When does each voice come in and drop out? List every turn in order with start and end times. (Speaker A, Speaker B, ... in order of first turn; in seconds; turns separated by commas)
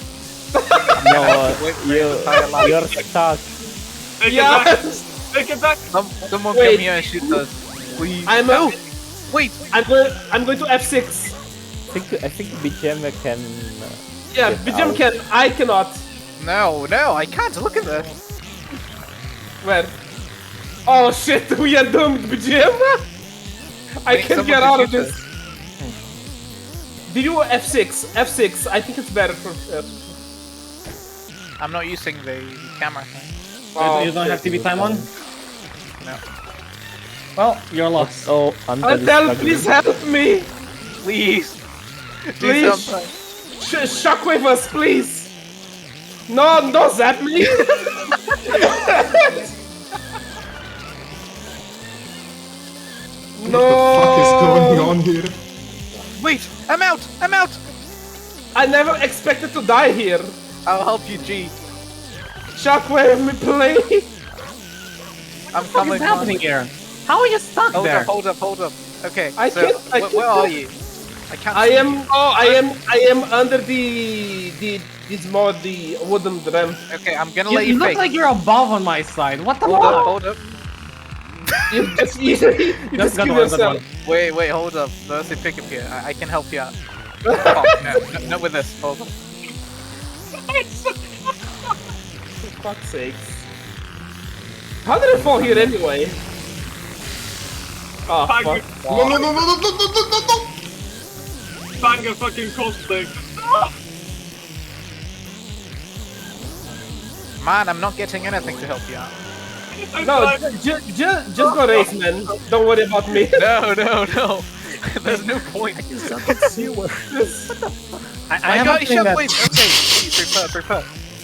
Speaker A: 0.5-1.4, Speaker B: 1.0-3.5, Speaker C: 1.1-2.8, Speaker D: 4.2-5.8, Speaker A: 4.2-5.0, Speaker C: 5.9-8.8, Speaker A: 6.5-7.4, Speaker A: 8.2-8.8, Speaker C: 9.3-9.6, Speaker A: 9.7-11.3, Speaker B: 11.9-15.1, Speaker A: 14.3-16.0, Speaker C: 16.4-18.1, Speaker A: 19.6-19.9, Speaker A: 20.9-23.0, Speaker A: 24.0-25.2, Speaker C: 24.1-25.2, Speaker A: 27.1-30.0, Speaker C: 31.6-33.3, Speaker A: 33.7-34.5, Speaker E: 33.8-35.0, Speaker B: 34.5-35.1, Speaker E: 37.4-38.3, Speaker B: 37.9-39.7, Speaker A: 38.8-40.5, Speaker C: 41.0-41.6, Speaker C: 42.3-43.1, Speaker A: 42.4-43.0, Speaker A: 43.6-45.3, Speaker A: 46.3-49.5, Speaker A: 53.4-55.0, Speaker F: 53.4-55.4, Speaker C: 56.2-57.6, Speaker A: 58.5-60.3, Speaker C: 60.6-61.5, Speaker A: 62.5-64.1, Speaker C: 65.5-66.4, Speaker E: 65.7-68.1, Speaker C: 67.7-70.7, Speaker A: 69.3-70.5, Speaker C: 71.3-72.6, Speaker A: 71.5-76.8, Speaker C: 76.9-78.0, Speaker E: 77.5-80.2, Speaker C: 79.6-80.4, Speaker A: 79.7-80.1, Speaker A: 81.7-83.8, Speaker E: 82.9-83.8, Speaker C: 84.0-86.7, Speaker A: 87.2-88.2, Speaker C: 87.3-89.1, Speaker A: 92.4-93.4, Speaker A: 94.8-96.2, Speaker A: 98.1-98.6, Speaker D: 98.2-98.6, Speaker C: 98.8-99.3, Speaker F: 98.9-100.5, Speaker D: 101.8-103.7, Speaker C: 107.4-109.1, Speaker D: 109.7-110.5, Speaker A: 110.0-110.4, Speaker E: 110.4-111.6, Speaker A: 111.4-113.5, Speaker C: 113.3-116.5, Speaker E: 115.1-117.0, Speaker A: 117.1-117.5, Speaker E: 118.3-119.4, Speaker C: 118.4-120.9